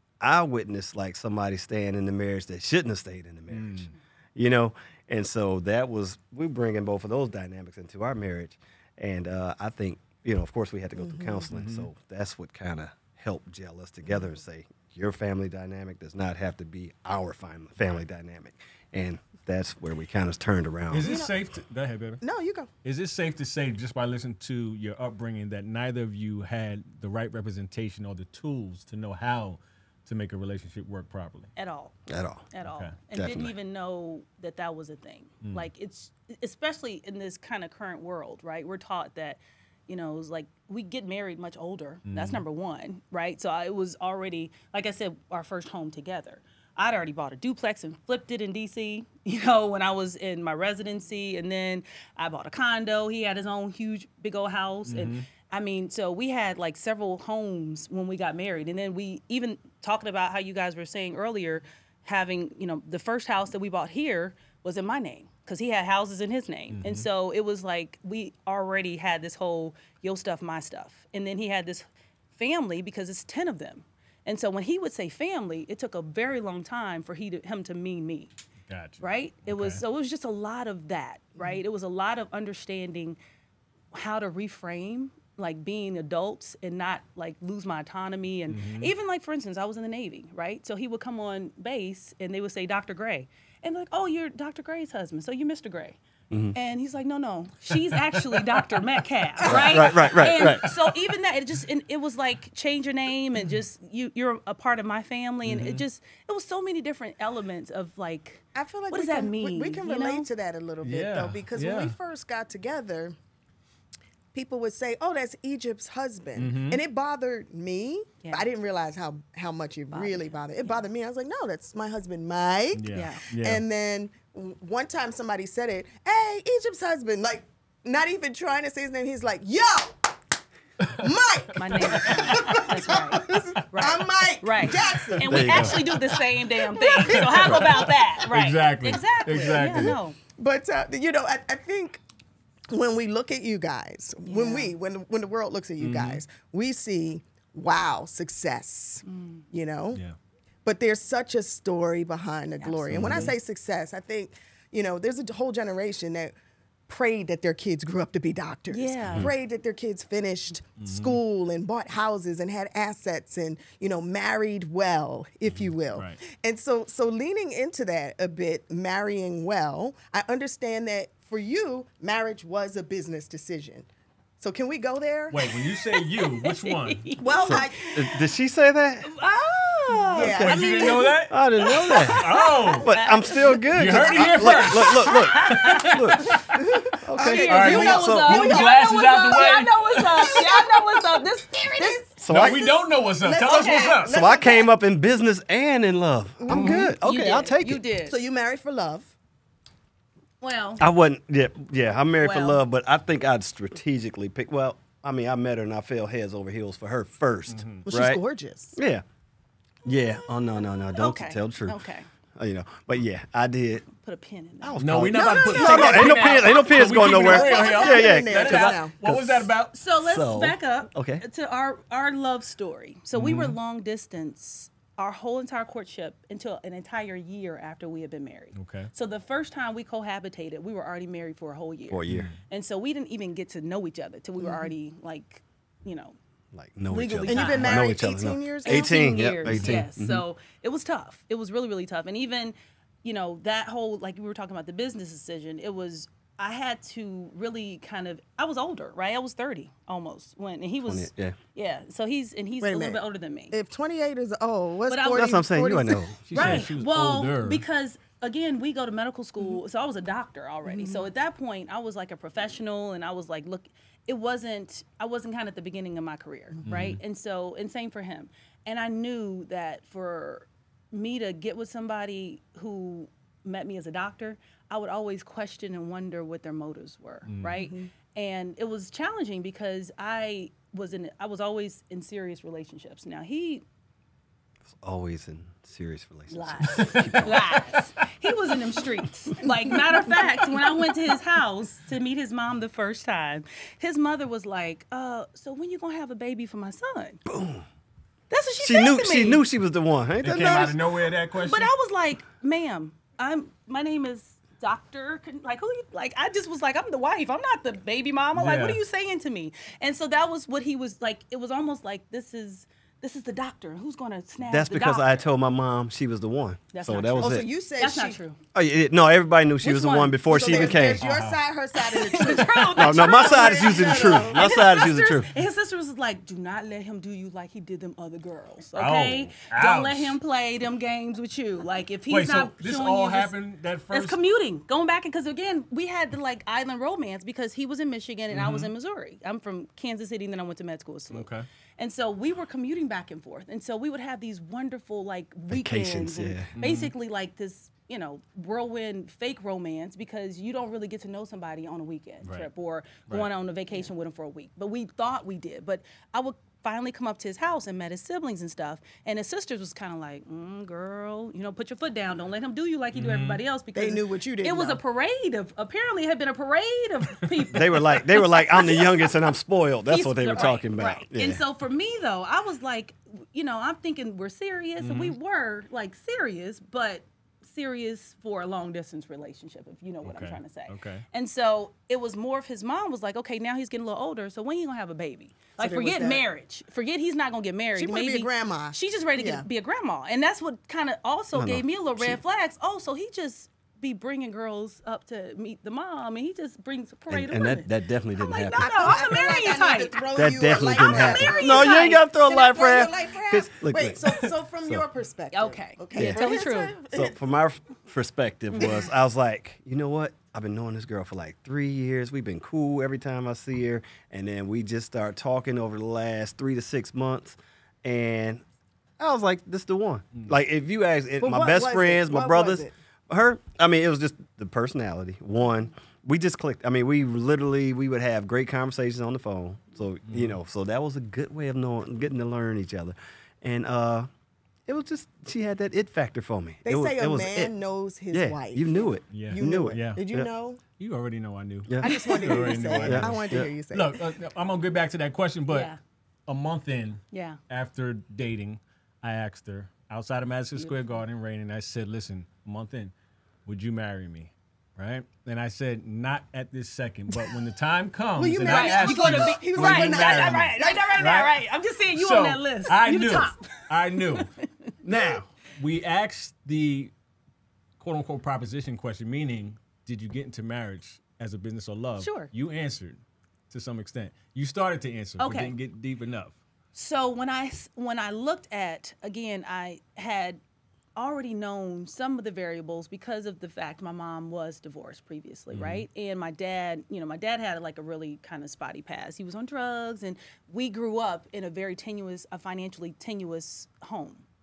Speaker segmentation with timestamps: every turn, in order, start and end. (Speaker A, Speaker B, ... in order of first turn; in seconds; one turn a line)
Speaker A: 0.2-21.1
Speaker B: 3.5-3.9
Speaker C: 11.0-11.5
Speaker B: 11.5-11.9
Speaker B: 20.9-22.2
Speaker C: 21.0-21.3
Speaker C: 22.2-22.7
Speaker B: 22.8-31.5
Speaker D: 31.6-32.0
Speaker A: 32.1-32.5
Speaker D: 32.5-78.3
Speaker B: 32.6-33.0
Speaker A: 33.1-33.5
Speaker B: 42.1-42.4
Speaker B: 54.9-55.2
Speaker B: 66.7-67.1
Speaker B: 78.7-79.8
Speaker D: 79.0-83.2
Speaker C: 81.4-81.6
Speaker D: 83.9-96.0
Speaker B: 88.5-88.9
Speaker D: 96.5-110.3
Speaker C: 99.5-99.7
Speaker A: 99.5-100.7
Speaker B: 99.9-100.8
Speaker B: 105.5-105.8
Speaker C: 108.5-113.2
Speaker B: 110.8-112.0
Speaker C: 114.3-130.0
Speaker B: 116.4-116.8
Speaker D: 119.9-120.8
Speaker B: 122.8-123.6
Speaker D: 122.9-123.2
Speaker B: 130.8-131.1
Speaker C: 131.0-137.9
Speaker D: 131.6-140.2
Speaker B: 131.6-133.5
Speaker B: 134.7-136.2
Speaker A: 135.3-135.9
Speaker B: 136.9-140.0
Speaker C: 139.3-142.0
Speaker C: 142.7-150.0
Speaker D: 144.2-144.7
Speaker B: 145.8-146.2
Speaker D: 149.1-149.4
Speaker C: 150.7-156.3
Speaker D: 152.6-153.0
Speaker A: 152.9-153.3
Speaker B: 152.9-153.3
Speaker C: 156.9-173.9
Speaker D: 158.7-159.3
Speaker B: 160.8-161.2
Speaker B: 165.5-166.2
Speaker C: 174.4-175.5
Speaker B: 175.3-177.1
Speaker D: 175.9-178.1
Speaker C: 177.2-177.9
Speaker A: 177.4-179.1
Speaker D: 179.1-186.4
Speaker C: 180.1-181.2
Speaker A: 180.1-180.6
Speaker B: 180.3-181.4
Speaker A: 181.3-188.6
Speaker B: 182.0-182.9
Speaker B: 183.7-186.7
Speaker C: 186.8-189.5
Speaker D: 187.2-192.0
Speaker B: 187.4-190.4
Speaker C: 190.1-194.7
Speaker A: 192.2-192.7
Speaker B: 192.3-194.2
Speaker D: 193.4-193.9
Speaker A: 194.1-197.8
Speaker C: 196.4-197.0
Speaker B: 196.5-196.9
Speaker D: 197.0-198.2
Speaker C: 198.1-199.1
Speaker D: 200.4-200.9
Speaker A: 200.8-208.2
Speaker D: 202.2-202.6
Speaker B: 207.5-207.8
Speaker C: 207.9-208.8
Speaker A: 208.8-209.0
Speaker A: 209.8-211.8
Speaker D: 209.9-212.1
Speaker A: 212.4-213.9
Speaker D: 214.0-214.8
Speaker A: 214.6-221.2
Speaker B: 214.8-219.7
Speaker C: 215.1-218.9
Speaker D: 215.5-218.1
Speaker D: 219.7-236.2
Speaker B: 223.1-223.6
Speaker B: 228.6-228.9
Speaker A: 231.9-232.3
Speaker B: 232.1-232.4
Speaker C: 234.4-234.7
Speaker A: 236.5-240.2
Speaker D: 236.9-237.9
Speaker C: 237.2-239.0
Speaker D: 238.7-253.6
Speaker B: 239.5-239.8
Speaker A: 250.9-251.4
Speaker C: 252.6-256.4
Speaker D: 254.9-255.4
Speaker A: 255.1-256.5
Speaker B: 256.2-257.6
Speaker D: 256.3-283.6
Speaker C: 260.7-261.1
Speaker B: 266.7-267.0
Speaker B: 277.3-277.6
Speaker C: 277.6-277.9
Speaker A: 284.7-287.4
Speaker D: 286.3-297.2
Speaker B: 286.7-287.6
Speaker A: 297.2-297.6
Speaker D: 298.3-299.4
Speaker A: 298.6-300.8
Speaker B: 300.2-301.7
Speaker D: 301.4-315.3
Speaker B: 308.4-308.8
Speaker A: 314.4-317.5
Speaker D: 316.7-318.4
Speaker C: 317.2-318.2
Speaker A: 318.5-321.0
Speaker D: 319.6-320.8
Speaker C: 320.3-324.7
Speaker B: 321.0-321.4
Speaker D: 321.8-333.3
Speaker A: 322.7-325.3
Speaker B: 328.8-330.2
Speaker B: 332.1-334.2
Speaker D: 333.9-341.3
Speaker B: 338.3-338.7
Speaker B: 341.1-341.5
Speaker D: 341.8-369.1
Speaker A: 345.5-346.5
Speaker B: 346.6-346.9
Speaker B: 362.9-363.4
Speaker C: 363.8-364.8
Speaker A: 367.5-371.4
Speaker D: 369.9-402.0
Speaker B: 374.8-375.1
Speaker B: 380.1-381.1
Speaker C: 385.6-386.2
Speaker C: 387.8-389.4
Speaker A: 391.4-392.2
Speaker A: 397.1-399.1
Speaker C: 398.2-407.1
Speaker A: 400.1-404.8
Speaker D: 405.3-406.8
Speaker A: 405.9-406.3
Speaker A: 406.9-418.4
Speaker D: 408.6-408.9
Speaker C: 408.6-408.8
Speaker A: 419.0-434.1
Speaker C: 421.2-422.7
Speaker B: 430.1-430.4
Speaker A: 434.7-437.5
Speaker C: 436.6-440.6
Speaker A: 438.1-440.3
Speaker B: 439.1-440.0
Speaker B: 440.8-445.7
Speaker C: 441.8-444.0
Speaker D: 442.0-442.3
Speaker A: 442.4-443.5
Speaker D: 445.5-445.8
Speaker B: 446.3-452.9
Speaker D: 447.1-447.4
Speaker D: 450.6-450.8
Speaker B: 453.5-464.3
Speaker C: 457.1-457.4
Speaker C: 458.1-461.1
Speaker D: 458.5-464.7
Speaker B: 464.8-466.9
Speaker B: 467.8-473.0
Speaker D: 472.0-472.3
Speaker B: 473.5-476.4
Speaker D: 475.2-475.6
Speaker D: 476.7-480.4
Speaker D: 481.0-494.2
Speaker B: 485.5-485.9